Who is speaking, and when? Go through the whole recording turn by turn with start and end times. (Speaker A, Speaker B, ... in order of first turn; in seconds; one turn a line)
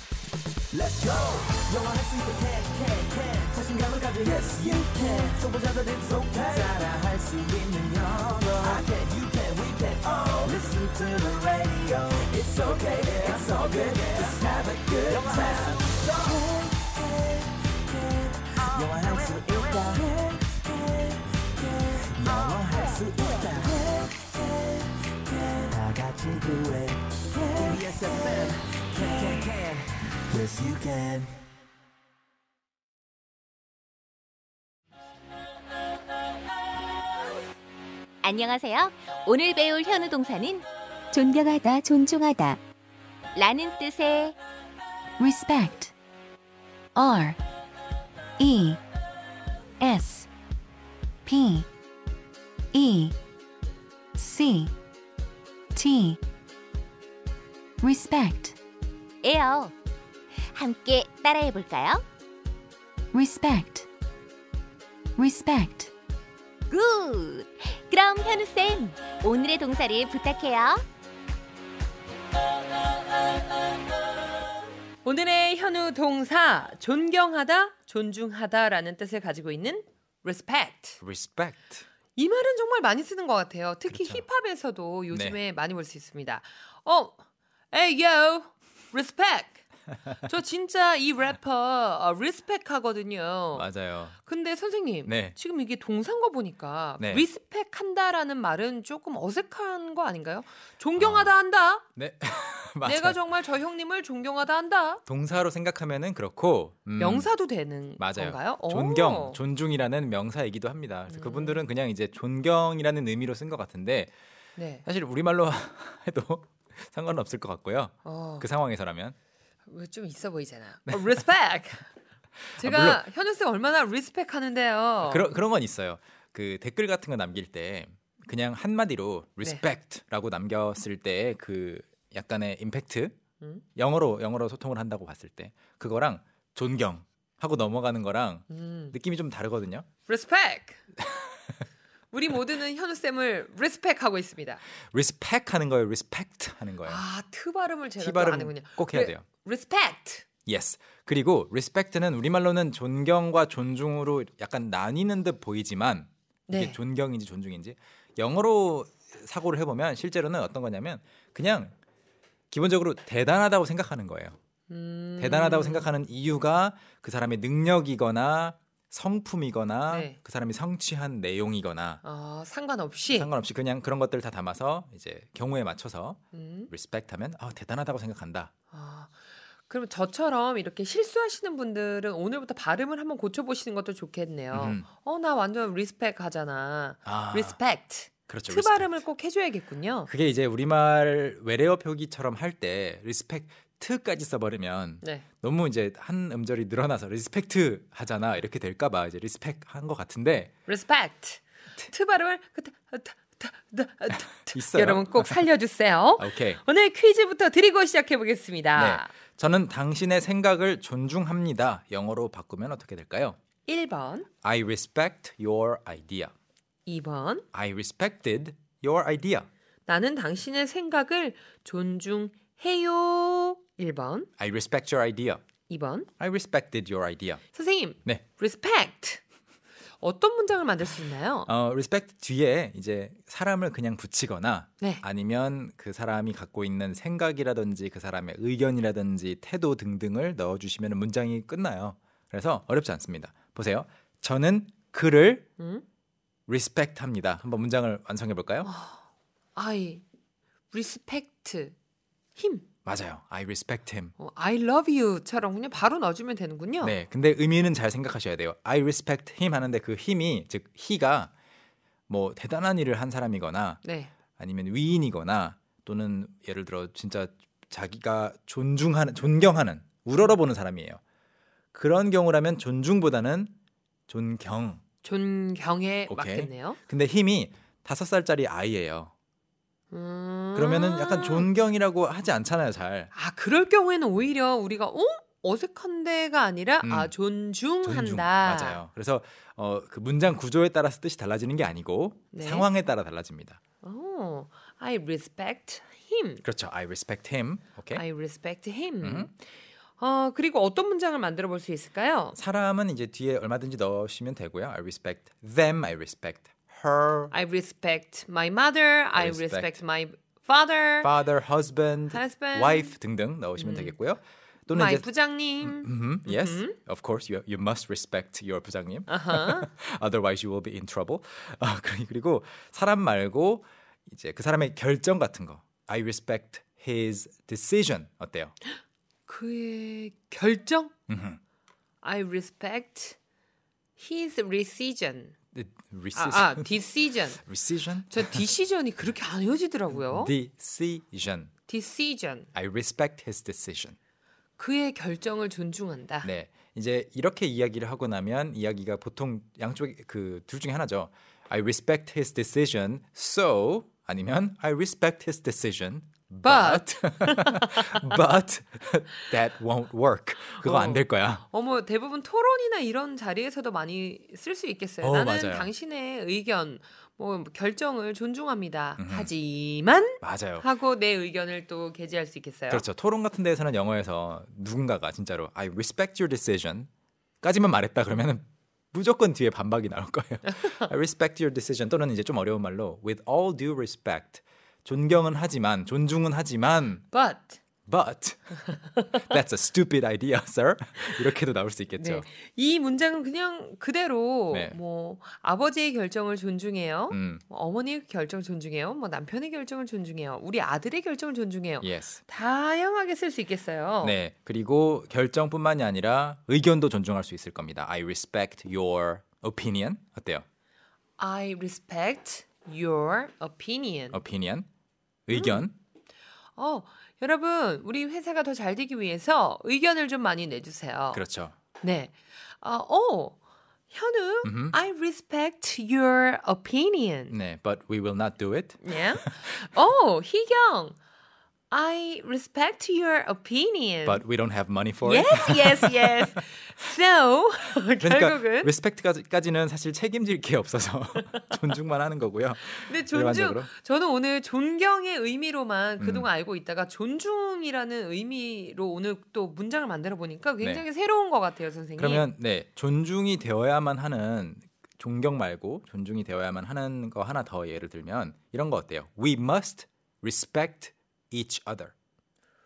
Speaker A: 0.7-31.3
Speaker B: 38.2-42.6
Speaker B: 43.3-44.4
Speaker C: 45.2-45.9
Speaker C: 47.0-47.4
Speaker C: 48.5-48.8
Speaker B: 49.8-50.2
Speaker C: 49.9-50.3
Speaker C: 51.3-51.7
Speaker C: 52.7-53.1
Speaker C: 54.1-54.7
Speaker C: 55.7-56.2
Speaker C: 57.8-58.5
Speaker B: 59.2-59.7
Speaker B: 60.5-62.0
Speaker C: 63.1-63.9
Speaker C: 65.2-65.9
Speaker B: 66.7-70.8
Speaker D: 75.0-81.0
Speaker E: 81.0-81.8
Speaker D: 82.2-87.2
Speaker E: 83.9-84.2
Speaker E: 85.1-85.4
Speaker D: 87.7-89.6
Speaker D: 90.2-101.8
Speaker E: 93.5-94.2
Speaker E: 95.0-95.3
Speaker E: 97.0-97.2
Speaker E: 101.0-101.3
Speaker E: 102.0-103.2
Speaker D: 102.8-105.0
Speaker E: 105.0-107.3
Speaker D: 107.0-109.4
Speaker E: 108.0-114.1
Speaker D: 111.1-111.6
Speaker D: 114.5-114.8
Speaker E: 114.8-119.1
Speaker D: 118.0-118.5
Speaker D: 119.7-121.9
Speaker E: 120.9-121.2
Speaker E: 122.5-123.0
Speaker D: 122.6-125.3
Speaker E: 125.0-133.1
Speaker E: 133.8-139.9
Speaker D: 138.5-138.9
Speaker D: 140.1-140.8
Speaker D: 142.1-144.6
Speaker E: 144.9-147.0
Speaker D: 146.8-150.2
Speaker E: 148.0-149.2
Speaker E: 150.5-161.7
Speaker D: 156.5-156.8
Speaker E: 162.5-164.3
Speaker D: 164.7-165.9
Speaker E: 165.2-172.0
Speaker D: 169.9-170.2
Speaker D: 172.0-173.3
Speaker E: 173.1-178.5
Speaker D: 176.3-176.7
Speaker D: 178.7-179.1
Speaker D: 179.7-190.1
Speaker E: 184.5-184.9
Speaker E: 187.0-187.6
Speaker E: 188.3-189.0
Speaker E: 190.1-200.5
Speaker D: 200.7-209.1
Speaker E: 204.1-205.4
Speaker E: 206.2-206.6
Speaker E: 208.7-213.4
Speaker D: 213.7-214.3
Speaker E: 214.4-216.3
Speaker D: 216.8-217.4
Speaker E: 217.5-219.5
Speaker D: 219.8-224.3
Speaker E: 224.4-225.4
Speaker D: 225.7-226.1
Speaker E: 226.2-227.4
Speaker D: 227.5-229.2
Speaker D: 230.0-231.5
Speaker E: 231.4-245.4
Speaker D: 245.6-245.8
Speaker E: 246.5-248.7
Speaker D: 248.6-249.0
Speaker D: 249.5-250.0
Speaker D: 250.7-251.7
Speaker D: 252.3-252.7
Speaker E: 252.8-254.1
Speaker D: 254.2-256.9
Speaker E: 256.8-261.3
Speaker E: 262.1-263.8
Speaker D: 263.8-264.1
Speaker E: 264.4-271.0
Speaker E: 271.7-273.5
Speaker E: 274.1-274.8
Speaker D: 275.0-276.8
Speaker E: 276.1-279.1
Speaker D: 279.9-281.5
Speaker E: 280.5-283.1
Speaker D: 283.1-288.8
Speaker E: 286.8-287.1
Speaker E: 287.8-293.6
Speaker D: 292.3-292.7
Speaker D: 293.8-296.4
Speaker E: 296.4-298.0
Speaker D: 297.9-299.4
Speaker E: 299.0-299.3
Speaker D: 300.0-302.4
Speaker E: 302.4-307.3
Speaker D: 307.3-311.1
Speaker E: 309.1-309.8
Speaker E: 311.0-315.1
Speaker D: 312.1-312.9
Speaker D: 313.6-313.9
Speaker D: 314.7-316.8
Speaker E: 315.6-328.5
Speaker D: 319.1-319.7
Speaker D: 329.3-330.9
Speaker E: 331.1-331.4
Speaker D: 332.0-333.2
Speaker D: 334.0-335.3
Speaker E: 335.5-336.7
Speaker D: 336.1-337.4
Speaker E: 337.4-338.4
Speaker D: 338.1-340.3
Speaker E: 339.9-341.5
Speaker D: 341.7-342.5
Speaker E: 342.5-343.9
Speaker D: 344.6-346.3
Speaker E: 346.2-361.4
Speaker D: 356.4-358.2
Speaker D: 360.6-372.8
Speaker E: 365.0-365.7
Speaker E: 369.0-369.3
Speaker E: 370.2-370.6
Speaker E: 372.7-376.9
Speaker E: 377.4-387.0
Speaker D: 387.1-387.6
Speaker E: 387.9-388.6
Speaker E: 389.1-392.3
Speaker D: 392.0-404.2
Speaker E: 394.5-394.8
Speaker E: 397.1-397.4
Speaker E: 401.8-402.2
Speaker E: 404.0-410.4
Speaker D: 411.2-414.2
Speaker E: 414.1-414.7
Speaker E: 415.3-415.7
Speaker D: 415.3-415.7
Speaker D: 416.6-421.2
Speaker E: 421.1-421.5
Speaker D: 421.8-423.4
Speaker D: 423.9-427.3
Speaker E: 424.4-424.8
Speaker E: 427.3-429.6
Speaker D: 428.8-431.0
Speaker D: 431.7-434.2
Speaker E: 434.0-436.5
Speaker D: 435.0-438.7
Speaker E: 438.0-443.7
Speaker D: 442.8-452.3
Speaker E: 446.0-446.3
Speaker E: 452.0-461.9